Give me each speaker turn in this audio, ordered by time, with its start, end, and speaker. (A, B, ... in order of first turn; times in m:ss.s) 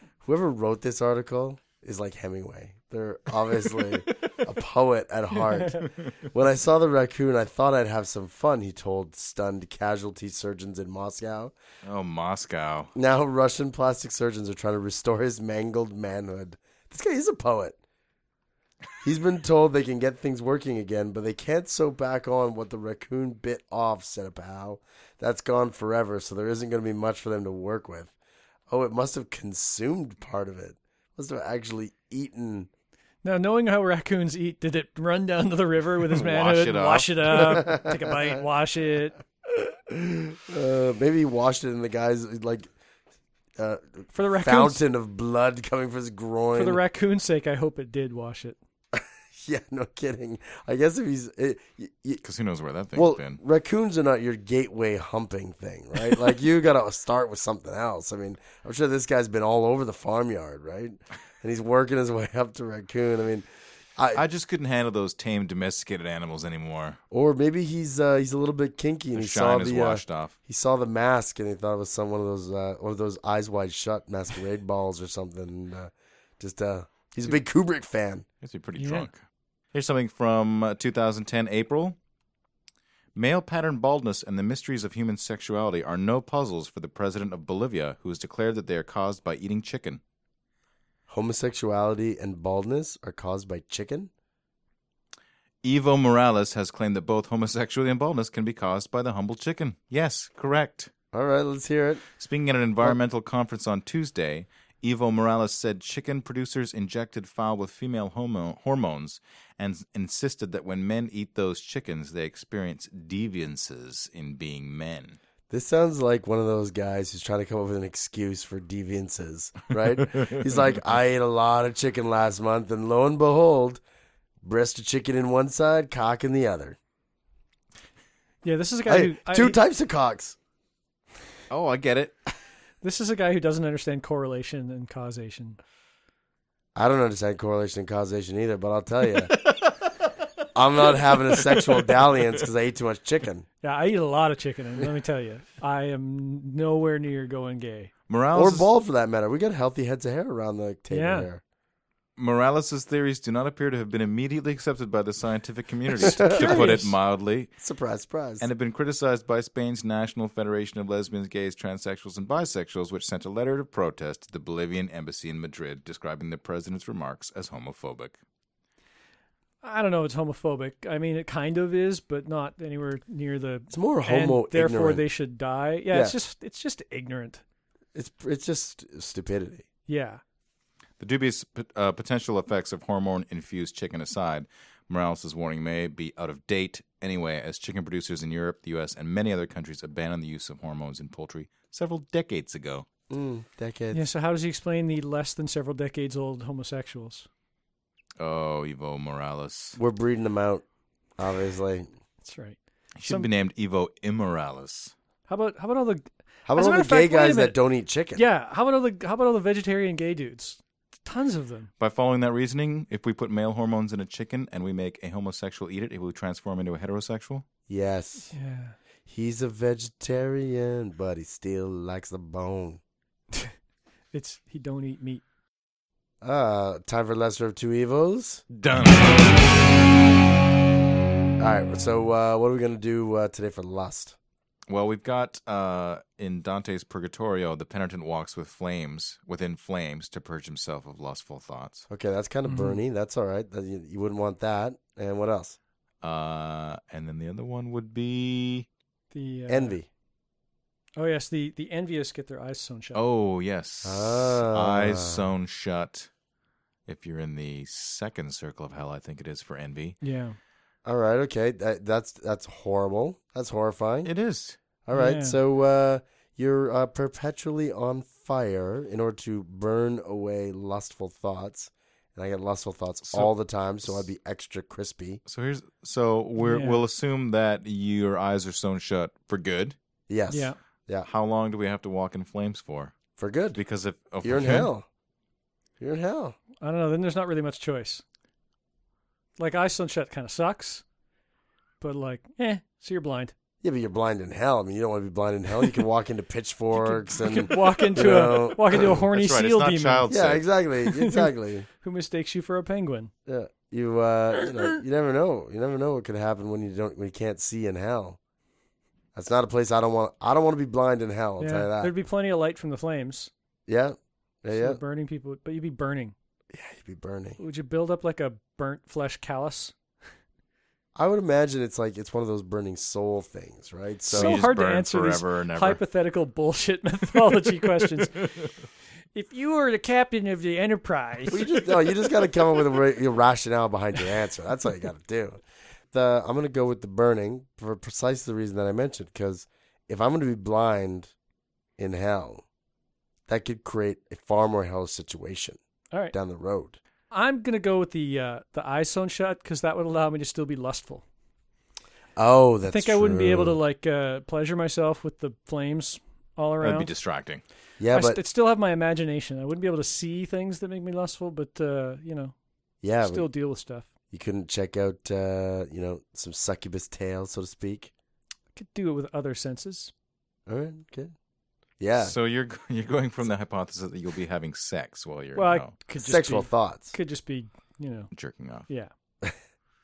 0:00.2-0:11.5 A
0:05.5-0:05.8 B
0:11.8-0:12.9 C
0:13.0-0:17.8 A
0:19.0-0:28.1 A
0:28.7-0:32.7 A
0:33.2-0:39.2 B
0:36.0-0:37.7 C
0:37.4-0:38.1 A
0:39.5-0:42.7 A
0:43.6-0:46.8 A
0:44.1-0:44.8 B
0:46.6-0:48.6 B
0:48.9-0:52.2 A
0:52.2-0:53.4 C
0:53.0-1:03.4 A
1:04.0-1:04.2 A
1:04.1-1:07.0 C
1:07.1-1:18.3 A
1:09.1-1:10.3 C
1:18.4-1:19.2 C
1:18.8-1:19.1 B
1:19.7-1:22.0 C
1:23.2-1:30.0 C
1:31.1-1:34.1 A
1:35.6-1:40.9 C
1:41.1-1:42.0 A
1:42.2-1:55.2 C
1:55.5-2:03.8 A
2:04.4-2:06.8 A
2:08.4-2:09.6 B
2:08.9-2:10.4 A
2:11.5-2:12.2 C
2:12.8-2:15.6 B
2:16.8-2:19.4 A
2:20.5-2:23.5 A
2:21.3-2:21.9 C
2:23.6-2:27.9 B
2:28.1-2:28.7 C
2:28.3-2:31.4 A
2:30.9-2:31.3 B
2:32.2-2:37.5 C
2:36.0-2:36.7 A
2:36.0-2:36.9 B
2:37.6-2:38.5 A
2:38.4-2:48.2 C
2:49.6-2:57.4 B
2:53.7-2:55.0 A
2:55.9-2:56.2 A
2:58.0-2:59.7 A
2:59.9-3:00.2 B
3:01.0-3:12.9 C
3:13.1-3:14.0 A
3:13.9-3:17.3 B
3:18.2-3:19.8 C
3:19.8-3:20.6 A
3:21.2-3:21.9 A
3:22.2-3:23.3 B
3:23.0-3:24.9 C
3:25.3-3:27.6 B
3:26.5-3:28.2 A
3:28.2-3:31.7 B
3:31.8-3:37.4 C
3:37.7-3:38.3 A
3:38.3-3:38.8 B
3:39.1-3:42.8 A
3:44.1-3:45.2 B
3:46.2-3:48.4 A
3:48.5-3:49.6 C
3:51.4-3:54.2 A
3:54.7-4:01.9 C
4:01.9-4:05.6 A
4:02.5-4:02.8 B
4:06.0-4:08.7 C
4:09.1-4:09.8 B
4:09.5-4:09.9 A
4:11.0-4:13.0 B
4:12.9-4:16.1 C
4:13.8-4:15.3 A
4:16.9-4:20.0 C
4:20.0-4:20.4 B
4:20.8-4:24.1 A
4:24.0-4:24.6 C
4:24.8-4:35.2 A
4:24.9-4:25.4 B
4:35.3-4:39.8 C
4:36.4-4:36.8 B
4:40.1-4:41.1 A
4:40.3-4:40.6 B
4:41.0-4:43.0 C
4:43.2-4:43.6 A
4:43.5-4:44.7 C
4:44.2-4:44.9 A
4:45.8-4:46.4 A
4:46.6-4:48.0 B
4:49.4-4:50.8 B
4:51.8-4:53.3 B
4:53.6-4:58.9 A
4:56.7-5:00.1 B
4:58.8-5:00.4 C
5:00.1-5:01.7 A
5:00.8-5:03.1 B
5:03.3-5:08.2 A
5:09.1-5:11.9 A
5:11.4-5:13.3 B
5:13.7-5:14.8 A
5:14.5-5:16.2 B
5:16.5-5:17.4 A
5:17.4-5:19.7 B
5:21.0-5:24.4 A
5:24.1-5:25.8 C
5:24.1-5:28.5 B
5:29.1-5:31.6 B
5:31.3-5:41.1 A
5:41.8-5:42.4 A
5:43.3-5:45.6 A
5:46.1-5:46.8 A
5:47.1-5:51.0 B
5:52.2-5:53.6 A
5:52.7-5:56.9 B
5:56.6-5:57.4 C
5:57.8-5:58.2 A
5:57.9-6:02.4 B
6:02.8-6:03.3 A
6:03.0-6:03.9 B
6:04.1-6:07.9 A
6:08.6-6:09.9 B
6:10.5-6:11.1 A
6:11.8-6:12.2 A
6:12.0-6:15.7 C
6:15.4-6:18.1 B
6:16.0-6:17.0 A
6:18.1-6:18.7 C